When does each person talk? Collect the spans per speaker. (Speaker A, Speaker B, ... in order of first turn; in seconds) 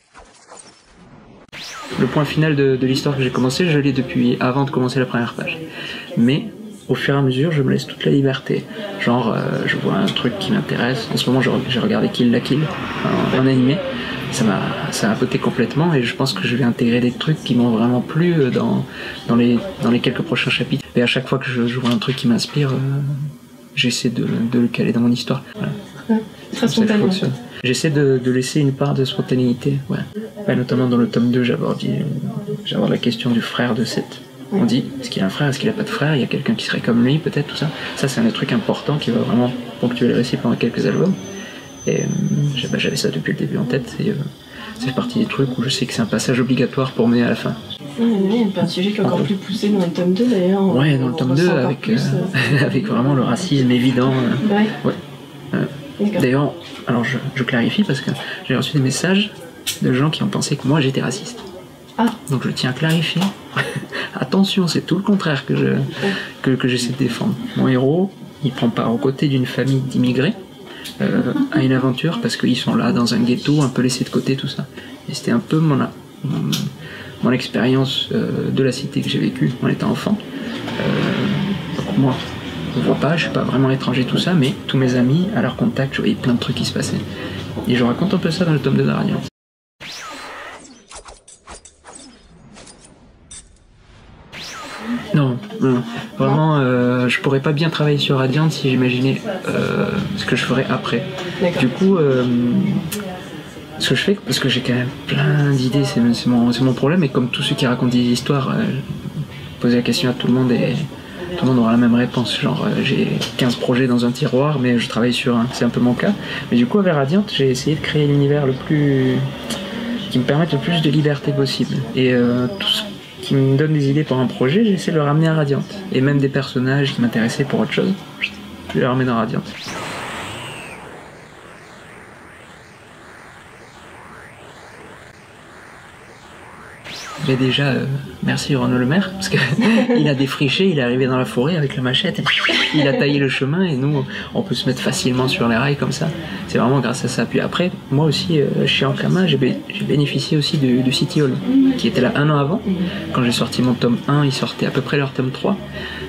Speaker A: 2.0-5.6, 6.1-25.8, 26.6-41.2, 41.9-44.2, 44.8-47.6, 49.0-49.3, 50.7-55.0, 55.5-61.4, 62.2-70.4, 71.0-76.7, 77.2-80.2, 80.8-82.2, 82.7-87.0, 87.7-89.3, 95.1-102.9, 103.8-119.3, 120.1-128.0, 128.7-129.5, 137.2-155.6
Speaker B: 26.1-27.2, 48.0-52.3, 54.4-54.8, 56.0-56.2, 101.4-101.7